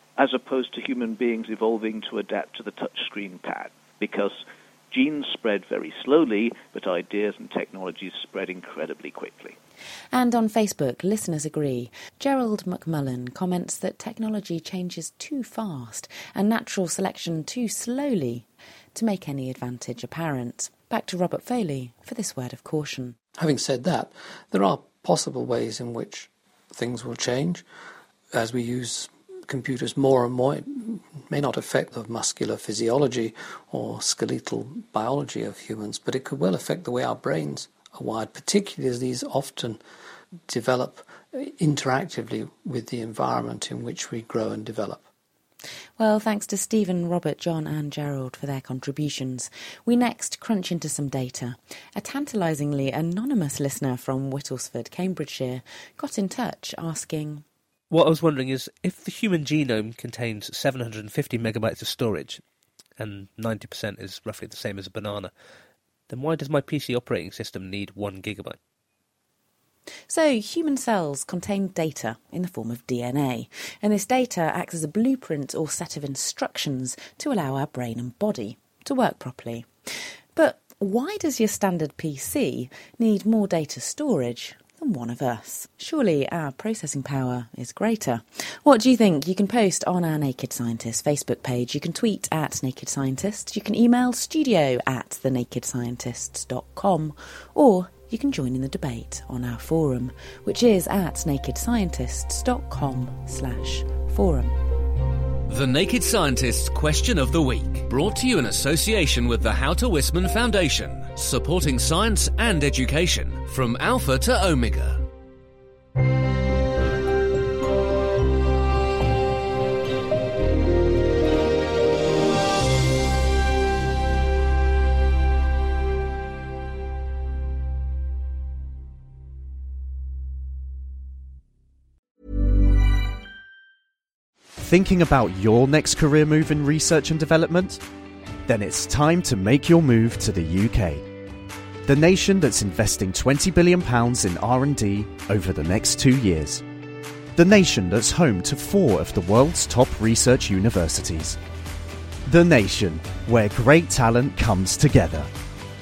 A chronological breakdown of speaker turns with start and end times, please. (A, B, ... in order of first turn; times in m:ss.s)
0:00.2-0:09.6 A
0:10.1-0:23.2 B
0:23.4-0:27.6 C
0:28.3-0:39.8 C
0:40.5-0:45.0 C
0:46.0-0:57.4 B
0:57.9-1:02.4 D
1:03.0-1:05.3 D
1:06.1-1:08.6 D
1:10.1-1:19.7 B
1:20.4-1:44.5 B
1:45.5-1:55.0 E
2:14.6-2:17.8 F
2:18.4-2:21.0 F
2:21.8-2:26.6 F
2:27.4-2:31.4 F
2:32.2-2:35.3 F